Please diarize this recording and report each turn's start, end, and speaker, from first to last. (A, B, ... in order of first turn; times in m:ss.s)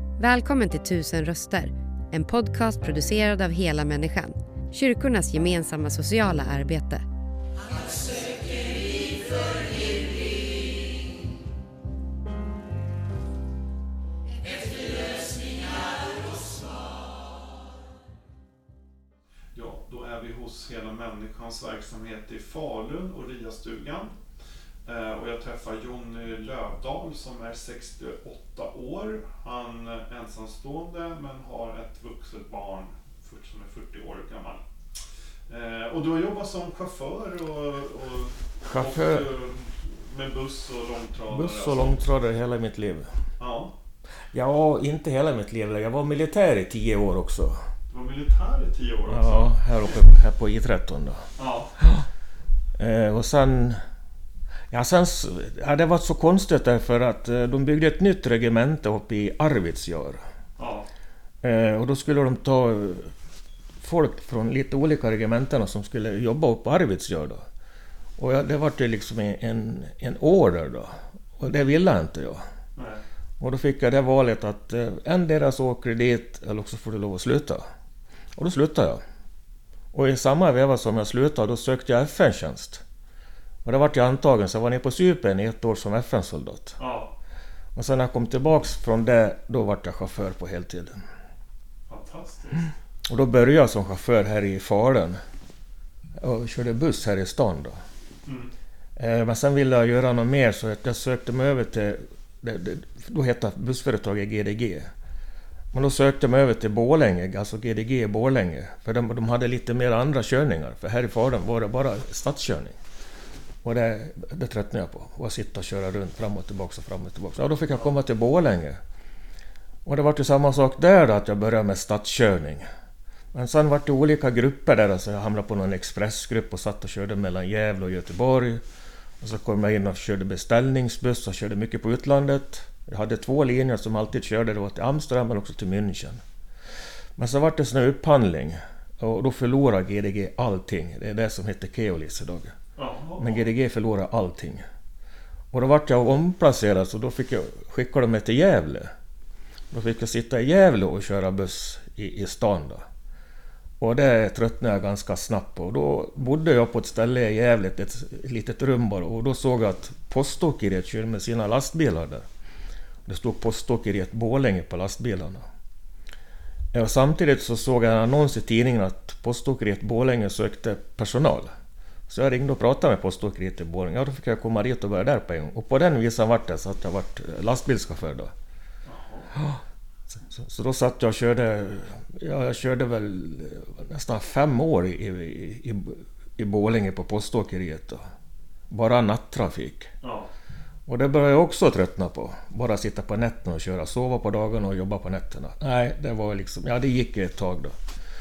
0:00.2-0:07.0 A
0:19.5-0:24.2 B
0:24.8-0:34.6 B
0:35.5-0:42.1 B
0:38.6-0:39.2 C
0:41.3-0:43.1 C
0:43.4-0:43.7 B
0:44.3-0:47.6 C
0:47.9-0:50.0 B
0:49.1-0:51.3 C
0:51.4-0:51.8 B
0:52.8-0:53.8 C
0:54.7-1:00.2 C
1:00.6-1:00.9 B
1:01.4-1:03.1 C
1:03.8-1:07.4 C
1:08.2-1:12.4 C
1:12.8-1:13.0 B
1:13.4-1:17.6 C
1:18.4-1:19.0 C
1:19.9-1:22.8 C
1:23.6-1:26.8 C
1:26.8-1:27.1 B
1:27.7-1:31.0 C
1:31.9-1:32.7 B
1:33.0-1:35.2 C
1:36.2-1:37.8 C
1:38.2-1:38.5 B
1:39.0-1:44.9 C
1:45.7-1:52.8 C
1:53.6-1:58.8 C
1:59.8-2:02.6 C
2:03.3-2:08.6 C
2:09.2-2:16.2 C
2:17.2-2:22.5 C
2:22.8-2:23.5 B
2:23.2-2:24.6 C
2:25.5-2:28.9 C
2:29.7-2:32.8 C
2:33.8-2:42.2 C
2:43.0-2:45.4 C
2:46.7-2:51.5 C
2:52.1-2:58.3 C
2:58.8-2:59.4 B
3:00.1-3:08.0 C
3:08.7-3:09.9 C
3:10.0-3:10.3 B
3:10.9-3:17.7 C